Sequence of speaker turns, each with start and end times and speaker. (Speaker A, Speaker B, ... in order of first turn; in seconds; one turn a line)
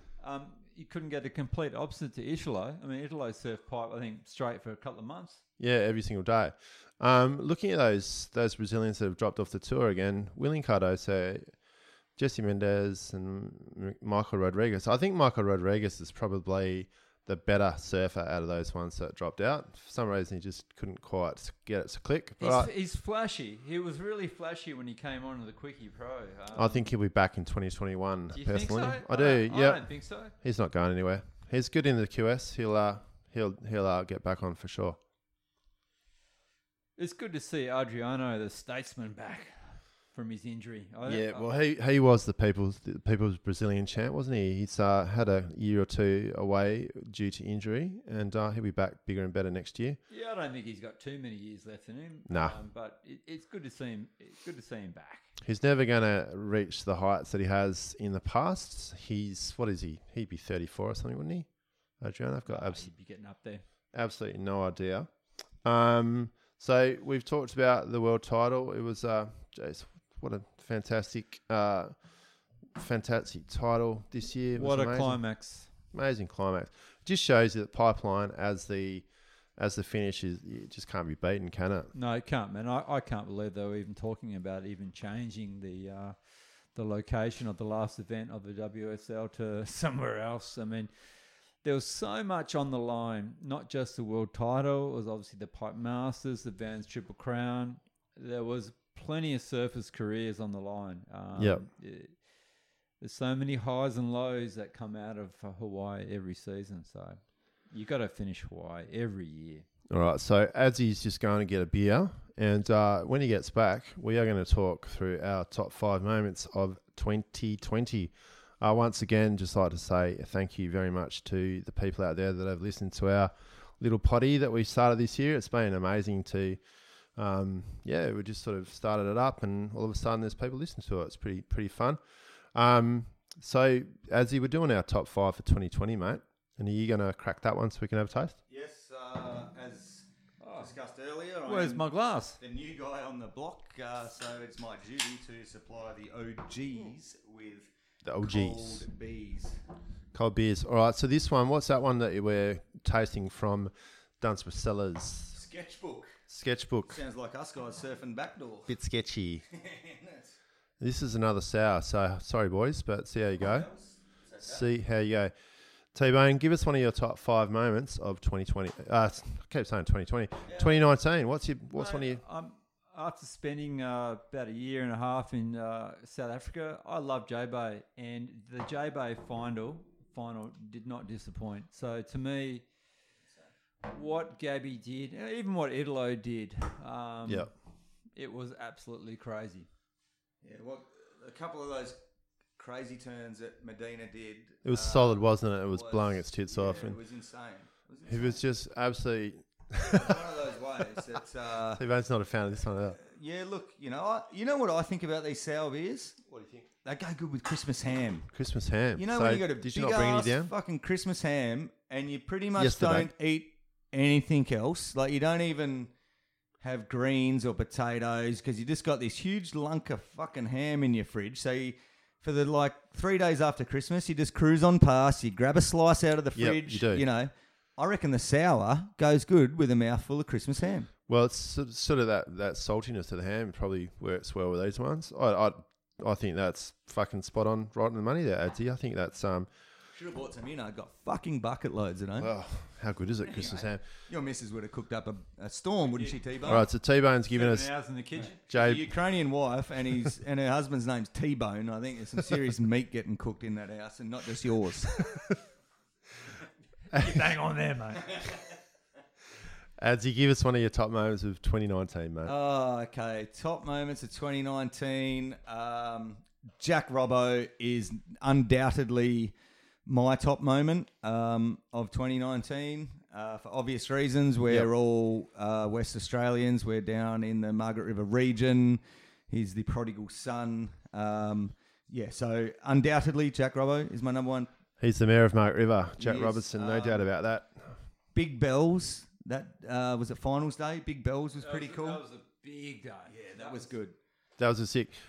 Speaker A: 0.2-5.4
Speaker B: 5.6-11.5
Speaker B: 12.2-22.7
Speaker A: 22.4-26.9
Speaker B: 26.5-35.0
Speaker A: 28.3-30.3
Speaker A: 37.0-39.5
Speaker A: 40.1-41.6
Speaker B: 41.1-50.0
Speaker A: 50.1-55.3
Speaker B: 52.3-52.6
Speaker B: 55.4-61.5
Speaker B: 62.0-62.9
Speaker A: 62.5-63.6
Speaker B: 63.9-65.1
Speaker B: 65.6-71.9
Speaker B: 72.8-75.2
Speaker A: 74.6-75.7
Speaker B: 75.9-79.1
Speaker B: 79.6-81.9
Speaker A: 81.9-86.2
Speaker A: 86.7-90.9
Speaker A: 91.6-102.1
Speaker B: 101.4-101.6
Speaker A: 103.0-107.2
Speaker A: 107.7-109.7
Speaker B: 109.9-126.6
Speaker B: 127.2-132.0
Speaker B: 132.5-138.4
Speaker C: 138.5-141.8
Speaker A: 140.4-140.7
Speaker A: 141.5-142.4
Speaker C: 142.4-149.6
Speaker B: 148.0-148.9
Speaker B: 150.1-155.4
Speaker C: 155.3-156.2
Speaker B: 156.3-157.0
Speaker C: 156.9-158.7
Speaker B: 158.7-159.4
Speaker C: 159.5-160.4
Speaker B: 160.8-163.7
Speaker C: 163.4-164.7
Speaker B: 164.4-165.3
Speaker B: 165.9-172.2
Speaker C: 170.5-170.8
Speaker A: 171.8-182.7
Speaker A: 183.9-187.5
Speaker B: 187.2-187.5
Speaker A: 188.2-189.7
Speaker C: 190.4-192.0
Speaker C: 192.6-198.4
Speaker B: 194.6-197.0
Speaker B: 198.1-200.3
Speaker C: 199.9-201.8
Speaker B: 201.8-203.0
Speaker C: 203.0-206.2
Speaker B: 206.3-206.6
Speaker C: 206.8-208.3
Speaker B: 208.3-210.5
Speaker C: 209.0-215.9
Speaker B: 212.6-213.1
Speaker C: 216.6-230.9
Speaker B: 226.3-227.1
Speaker B: 231.1-239.5
Speaker C: 239.9-242.3
Speaker B: 242.2-243.8
Speaker C: 243.2-246.7
Speaker A: 245.9-246.2
Speaker B: 246.5-247.7
Speaker A: 247.3-248.4
Speaker C: 248.2-255.0
Speaker B: 248.5-248.9
Speaker A: 256.9-258.4
Speaker C: 258.1-258.4
Speaker B: 259.8-262.3
Speaker C: 262.2-269.3
Speaker C: 269.9-284.5
Speaker B: 284.8-287.7
Speaker C: 286.0-287.1
Speaker C: 288.1-292.0
Speaker A: 291.4-293.7
Speaker C: 293.1-294.0
Speaker B: 294.4-295.0